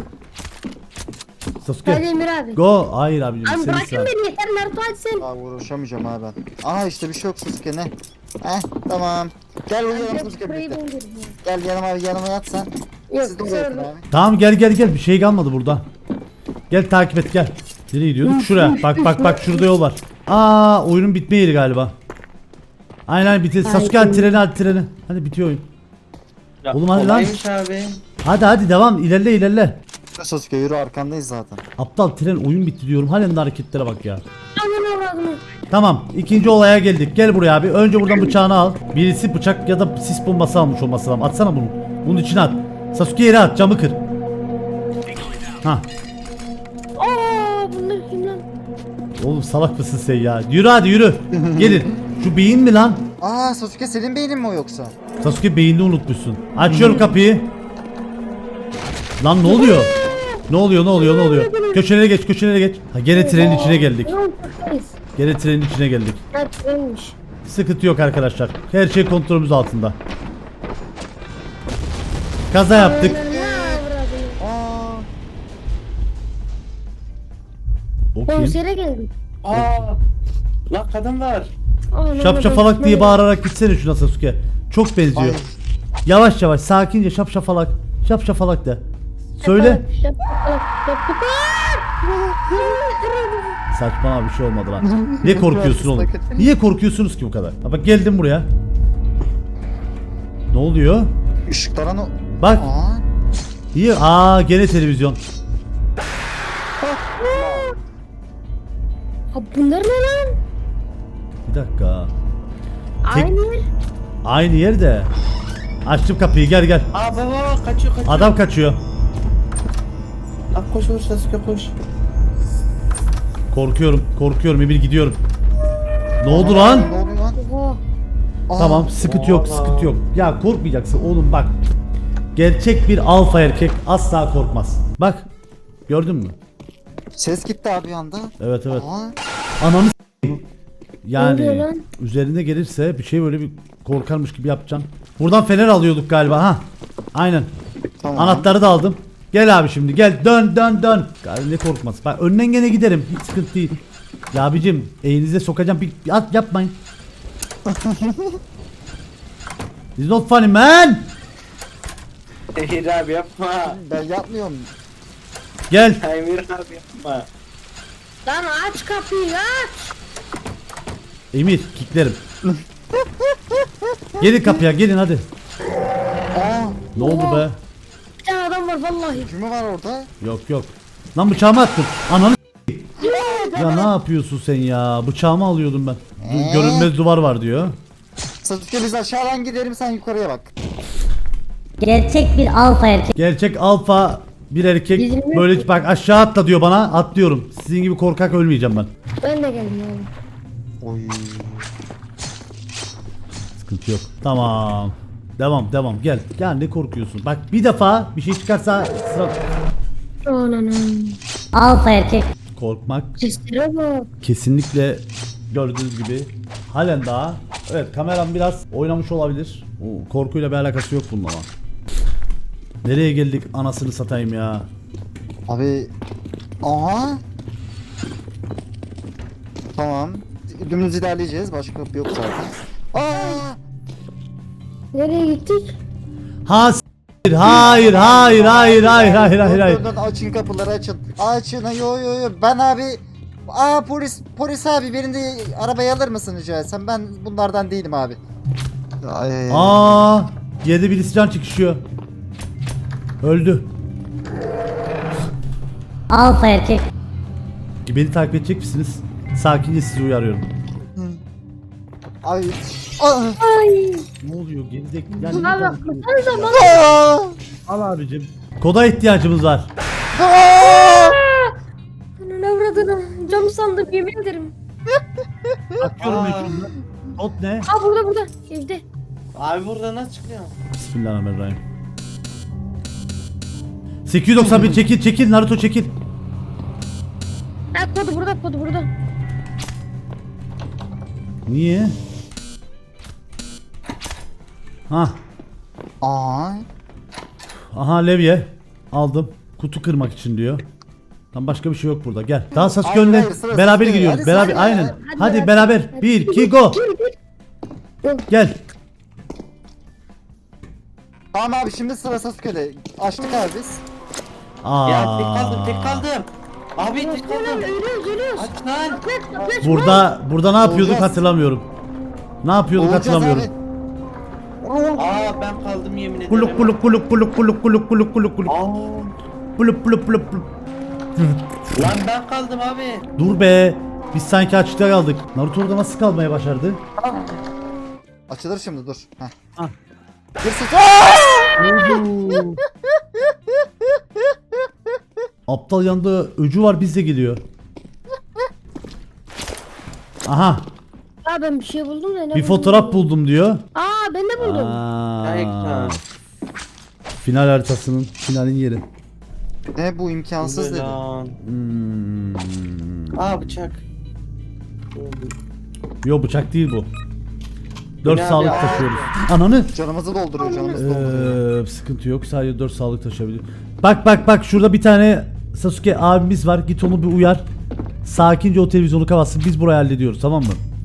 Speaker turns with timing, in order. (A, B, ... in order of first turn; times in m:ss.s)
0:01.6-0:04.1 A
0:01.9-0:02.6 B
0:03.4-0:05.2 B
0:05.2-0:10.8 C
0:09.9-0:11.4 B
0:11.4-0:12.7 C
0:13.1-0:13.9 B
0:13.2-0:14.1 C
0:14.1-0:15.9 A
0:16.7-0:21.9 A
0:18.2-0:19.7 B
0:23.1-0:25.7 A
0:23.6-0:24.4 B
0:26.6-0:28.0 D
0:26.7-0:27.4 A
0:28.2-0:29.8 A
0:30.2-0:31.6 C
0:31.8-0:34.2 A
0:34.6-0:35.4 B
0:35.7-0:44.0 A
0:47.0-0:48.4 B
0:49.2-0:53.0 A
0:51.3-0:52.0 C
0:53.2-0:55.0 C
0:55.2-0:57.5 A
0:56.7-0:57.1 C
0:59.2-0:59.9 A
0:59.4-1:00.4 B
0:59.9-1:00.3 C
1:00.5-1:04.1 A
1:00.9-1:01.8 B
1:03.1-1:05.0 B
1:03.4-1:03.8 C
1:05.2-1:06.2 A
1:06.3-1:07.2 B
1:07.4-1:10.0 A
1:12.5-1:13.2 A
1:12.7-1:14.4 B
1:12.9-1:13.8 C
1:14.4-1:15.1 C
1:18.2-1:18.6 A
1:18.3-1:19.1 B
1:19.4-1:20.0 D
1:20.7-1:21.5 D
1:21.9-1:23.2 B
1:22.2-1:25.4 A
1:25.1-1:25.6 C
1:26.1-1:28.8 A
1:29.4-1:29.8 A
1:29.4-1:31.9 B
1:32.0-1:32.8 C
1:32.5-1:33.6 B
1:33.7-1:38.5 A
1:34.8-1:36.5 C
1:40.5-1:41.1 A
1:41.5-1:43.0 C
1:42.4-1:42.7 A
1:43.7-1:45.2 A
1:46.8-1:47.8 C
1:47.2-1:47.7 B
1:49.3-1:50.4 B
1:51.5-1:52.1 A
1:53.0-1:53.7 B
1:54.2-1:55.1 A
1:55.8-1:56.9 A
1:56.9-1:58.4 D
1:58.1-1:58.8 A
2:00.5-2:01.7 D
2:03.5-2:05.2 A
2:06.2-2:06.9 A
2:06.2-2:07.4 C
2:06.6-2:07.8 B
2:08.5-2:08.9 C
2:08.6-2:11.6 A
2:09.0-2:10.0 D
2:12.4-2:15.3 A
2:15.9-2:16.4 A
2:17.2-2:19.2 C
2:18.4-2:18.8 A
2:19.6-2:20.4 A
2:21.0-2:27.5 A
2:21.2-2:21.8 B
2:28.0-2:28.5 C
2:28.2-2:33.8 A
2:34.3-2:36.8 A
2:37.7-2:38.4 C
2:40.0-2:41.1 A
2:42.6-2:43.8 D
2:43.6-2:44.7 C
2:45.7-2:46.0 A
2:46.0-2:47.3 D
2:48.3-2:49.9 B
2:51.3-2:52.2 A
2:52.4-2:54.6 C
2:54.2-2:55.3 A
2:56.3-2:56.9 C
2:57.0-2:57.6 A
2:57.0-2:57.5 B
2:58.2-2:59.3 B
2:59.1-3:00.1 C
3:00.2-3:02.8 A
3:03.0-3:03.9 C
3:03.0-3:03.9 B
3:03.6-3:07.8 A
3:06.2-3:06.9 C
3:08.4-3:10.5 C
3:11.8-3:13.1 E
3:13.2-3:18.9 A
3:15.0-3:15.6 B
3:19.2-3:20.1 B
3:20.8-3:21.7 C
3:23.6-3:29.4 A
3:30.3-3:31.2 B
3:31.5-3:32.3 E
3:32.6-3:33.2 A
3:33.2-3:34.1 B
3:34.2-3:41.5 A
3:42.8-3:44.7 A
3:45.5-3:45.9 C
3:46.6-3:47.2 C
3:49.8-3:53.6 C
3:54.9-3:55.8 B
3:56.5-3:59.8 A
3:57.3-4:08.2 C
4:09.0-4:10.0 C
4:09.5-4:11.8 A
4:13.2-4:13.7 A
4:16.1-4:16.8 E
4:17.9-4:20.5 A
4:21.0-4:21.2 C
4:22.2-4:23.4 C
4:23.4-4:24.1 B
4:24.2-4:26.6 A
4:25.2-4:26.9 B
4:26.4-4:27.4 C
4:27.7-4:29.7 A
4:30.1-4:31.2 C
4:30.6-4:31.5 B
4:32.2-4:34.5 B
4:34.9-4:35.8 C
4:35.8-4:37.7 A
4:36.0-4:36.6 D
4:37.7-4:38.8 B
4:39.4-4:40.6 D
4:40.7-4:41.6 A
4:44.1-4:45.9 A
4:47.7-4:48.9 B
4:51.5-4:52.0 A
4:54.9-4:55.2 A
4:56.0-4:56.7 C
4:57.7-5:00.6 A
5:01.3-5:06.8 A
5:02.6-5:05.0 C
5:04.3-5:07.2 B
5:08.3-5:08.6 A
5:11.3-5:13.8 C
5:14.6-5:16.1 A
5:14.9-5:17.7 D
5:16.8-5:20.1 B
5:18.4-5:19.0 D
5:19.4-5:20.0 C
5:19.6-5:21.7 A
5:20.6-5:21.2 C
5:22.4-5:23.5 A
5:22.8-5:23.5 C
5:24.6-5:25.1 C
5:25.0-5:26.8 D
5:26.3-5:28.5 A
5:28.5-5:29.1 D
5:29.6-5:30.5 A
5:31.2-5:31.9 A
5:31.8-5:33.1 D
5:33.2-5:36.8 A
5:37.0-5:37.4 C
5:38.3-5:39.3 C
5:40.4-5:42.5 C
5:41.6-5:42.6 A
5:45.5-5:47.4 A
5:50.3-5:50.7 A
5:51.2-5:53.1 B
5:52.3-5:53.6 A
5:53.8-5:54.8 B
5:54.4-5:56.0 A
5:55.2-5:55.9 D
5:57.2-5:58.8 A
5:59.8-6:01.0 C
6:00.4-6:01.4 D
6:01.4-6:03.2 A
6:03.2-6:03.8 D
6:04.9-6:05.3 D
6:06.0-6:06.9 A
6:08.0-6:09.1 D
6:08.0-6:09.7 A
6:08.4-6:08.9 C
6:09.7-6:11.4 C
6:10.4-6:10.8 B
6:10.8-6:17.4 A
6:18.0-6:20.6 A